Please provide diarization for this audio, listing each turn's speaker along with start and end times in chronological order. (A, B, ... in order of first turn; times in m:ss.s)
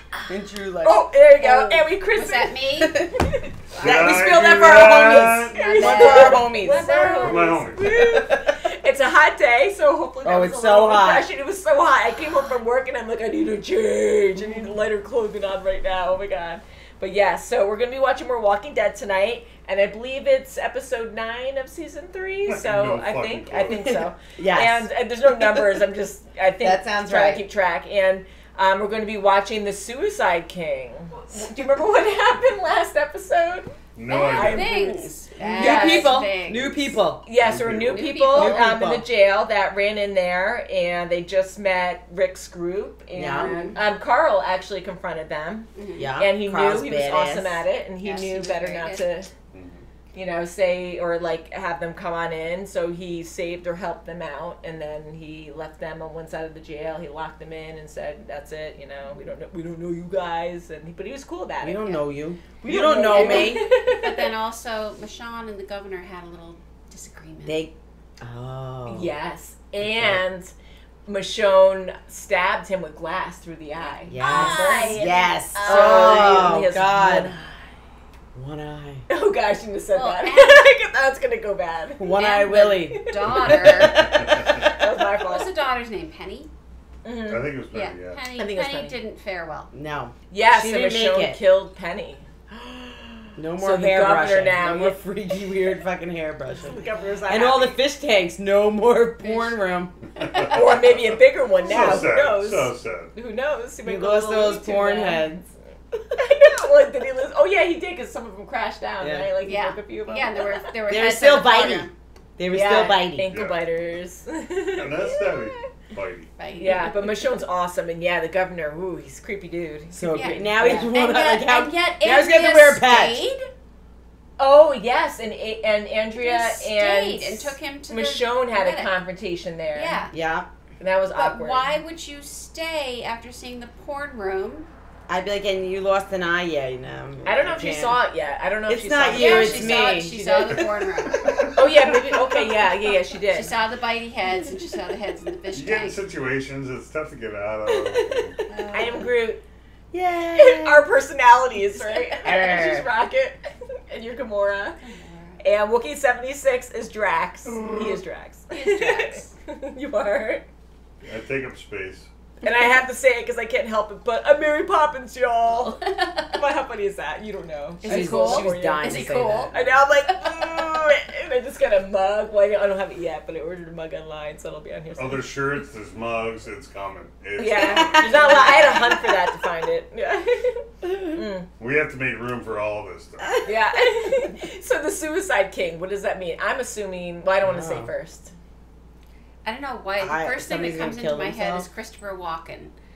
0:00.3-0:01.1 A
0:00.8-0:02.6 B
0:01.4-0:03.0 C
0:02.8-0:03.1 A
0:03.7-0:04.2 C
0:03.8-0:05.6 D
0:03.8-0:07.2 A
0:05.5-0:07.6 C
0:05.5-0:33.7 B
0:07.2-0:07.8 D
0:07.8-0:08.5 A
0:10.2-0:11.3 A
0:22.5-0:24.0 D
0:23.9-0:25.8 A
0:26.6-0:27.4 A
0:34.0-0:34.7 D
0:34.1-0:37.0 C
0:34.2-0:36.2 B
0:35.4-0:37.2 A
0:37.2-0:45.7 B
0:37.4-0:38.0 D
0:37.8-0:38.7 C
0:38.0-0:39.0 A
0:43.1-0:43.7 A
0:43.3-0:43.8 C
0:45.7-0:46.1 C
0:46.0-0:47.6 A
0:46.2-0:49.3 B
0:48.0-0:49.1 C
0:49.5-0:49.8 D
0:50.1-1:01.8 B
1:01.6-1:03.7 A
1:02.6-1:04.3 B
1:02.7-1:07.6 C
1:07.4-1:09.1 A
1:08.9-1:10.5 B
1:11.0-1:17.7 B
1:13.9-1:16.6 C
1:14.1-1:17.3 A
1:18.3-1:19.0 A
1:19.1-1:22.7 B
1:19.9-1:20.7 C
1:22.0-1:24.7 A
1:22.0-1:26.5 C
1:23.3-1:24.0 D
1:24.4-1:25.5 B
1:27.0-1:27.5 B
1:27.3-1:28.2 D
1:27.7-1:29.7 C
1:28.3-1:29.0 B
1:29.7-1:31.4 A
1:30.3-1:35.0 B
1:33.4-1:39.9 A
1:36.6-1:37.8 B
1:39.2-1:39.6 C
1:40.2-1:40.5 C
1:40.3-1:43.1 D
1:40.4-1:45.5 B
1:43.8-1:45.4 A
1:46.1-1:50.6 B
1:49.0-1:49.3 A
1:49.4-1:51.9 C
1:50.9-1:53.3 A
1:52.5-1:55.4 B
1:53.3-1:53.6 D
1:54.8-1:56.3 D
1:56.4-1:57.2 C
1:56.6-2:00.9 B
1:59.9-2:03.2 A
2:00.1-2:03.5 C
2:04.4-2:10.0 B
2:06.2-2:08.9 C
2:09.7-2:10.1 C
2:10.1-2:10.5 A
2:10.8-2:11.8 B
2:11.1-2:14.7 C
2:15.1-2:18.0 A
2:17.2-2:20.6 B
2:18.7-2:20.7 A
2:19.1-2:21.5 C
2:21.2-2:21.7 D
2:21.5-2:23.6 B
2:23.3-2:26.0 C
2:25.5-2:28.4 D
2:27.7-2:29.0 A
2:28.5-2:29.0 C
2:28.7-2:29.4 B
2:29.9-2:30.9 A
2:30.3-2:34.8 B
2:31.8-2:32.6 C
2:32.2-2:32.9 A
2:34.8-2:35.4 C
2:35.4-2:40.4 B
2:38.5-2:39.3 C
2:41.0-2:42.1 D
2:42.4-2:45.8 B
2:45.5-2:46.3 C
2:46.3-2:55.3 B
2:47.8-2:49.7 A
2:47.8-2:49.5 C
2:55.0-2:58.3 D
2:57.4-3:01.5 B
2:58.1-2:58.7 A
2:58.2-2:58.8 C
3:01.6-3:03.4 D
3:03.4-3:08.3 B
3:07.4-3:07.9 A
3:09.4-3:12.7 C
3:10.0-3:11.7 A